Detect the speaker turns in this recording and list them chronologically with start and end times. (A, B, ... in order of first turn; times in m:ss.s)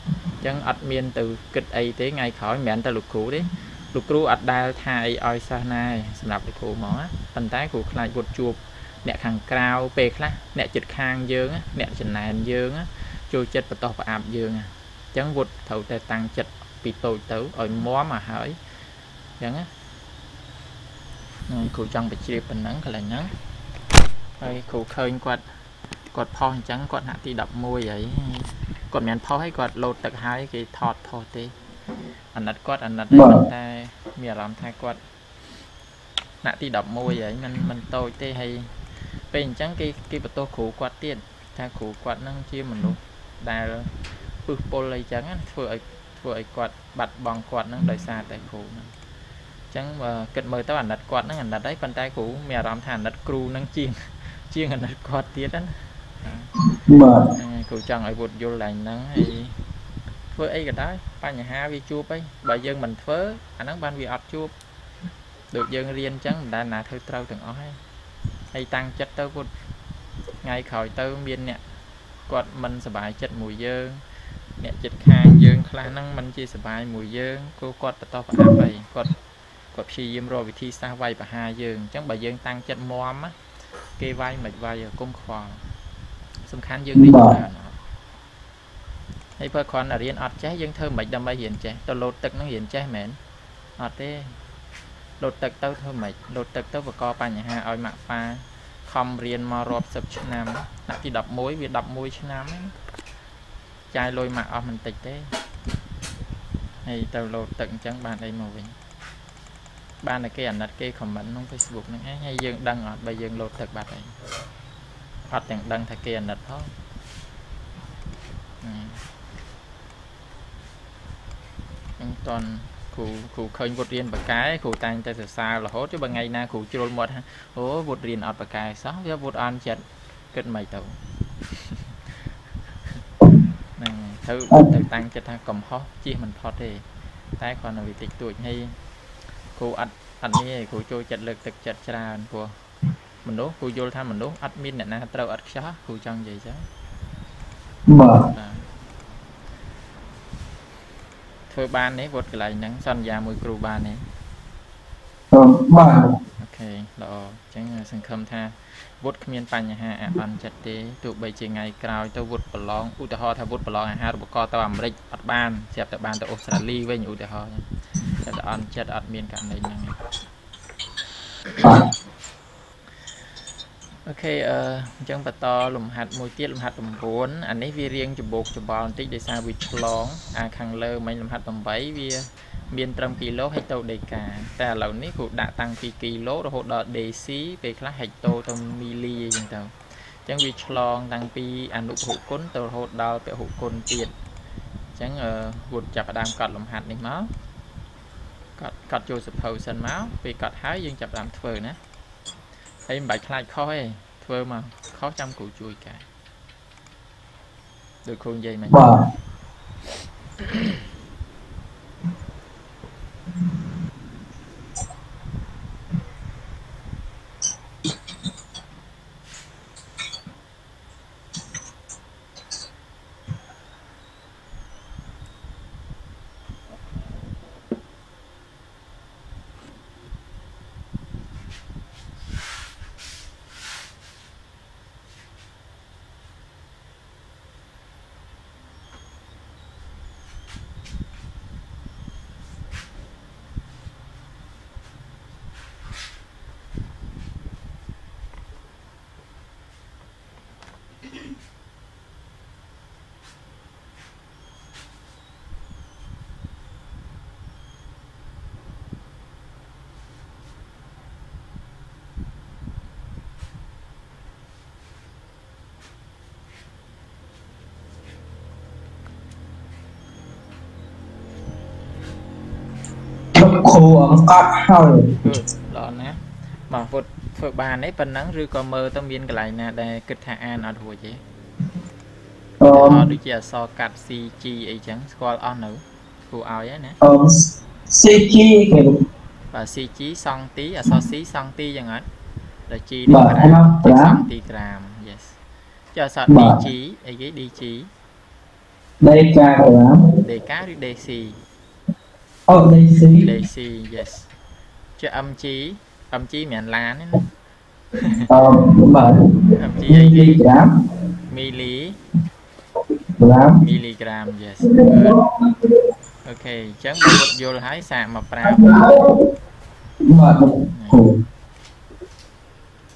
0:00.4-0:18.6 A
0:19.4-0:19.7 A
0:21.5-0:23.3 A
0:24.4-0:25.4 A
0:26.1-0:31.6 A
0:32.3-0:35.0 A
0:33.1-0:33.4 B
0:36.4-0:38.8 A
0:39.3-0:48.9 A
0:49.7-0:56.5 A
0:56.8-0:57.3 B
0:57.4-0:59.6 A
1:00.3-1:04.5 A
1:05.5-1:07.8 A
1:08.5-1:09.5 A
1:10.4-1:11.6 A
1:12.3-1:14.0 A
1:14.6-1:19.1 A
1:19.7-1:23.4 A
1:24.0-1:25.6 A
1:26.5-1:27.8 A
1:27.0-1:27.4 B
1:29.4-1:33.2 A
1:33.8-1:34.4 A
1:35.2-1:42.8 A
1:43.9-1:45.3 A
1:46.8-1:48.8 A
1:50.0-1:54.2 A
1:55.3-1:56.7 A
1:58.6-1:59.0 A
2:02.0-2:12.3 A
2:13.8-2:16.9 A
2:17.4-2:18.8 A
2:19.6-2:22.6 A
2:23.2-2:26.7 A
2:27.9-2:28.3 B
2:28.3-2:28.7 A
2:31.5-2:34.1 A
2:35.3-2:36.2 B
2:36.4-2:50.0 A
2:51.6-2:51.9 B
2:54.0-3:14.1 A
3:15.0-3:17.3 A
3:18.6-3:21.8 A
3:22.9-3:26.0 A
3:28.0-3:29.0 A
3:28.7-3:29.0 B
3:30.4-3:30.9 A
4:33.4-4:35.2 B
4:35.2-4:41.2 A
4:42.6-4:43.1 B
4:42.7-4:47.0 A
4:47.0-4:49.0 B
4:49.5-4:52.1 A
4:52.7-4:55.4 A
4:53.1-4:54.2 B
4:55.9-4:57.9 A
4:56.3-4:56.6 B
4:59.0-5:00.1 B
5:00.2-5:01.4 A
5:02.5-5:03.3 B
5:03.2-5:04.3 A
5:05.0-5:07.3 A
5:08.0-5:08.3 A
5:08.3-5:09.3 B
5:09.6-5:10.4 A
5:09.9-5:10.7 B
5:11.3-5:12.0 A
5:13.2-5:13.6 B
5:13.6-5:15.2 A
5:14.6-5:15.5 B
5:16.2-5:18.9 A
5:18.5-5:19.2 B
5:20.1-5:21.2 B
5:20.7-5:21.0 A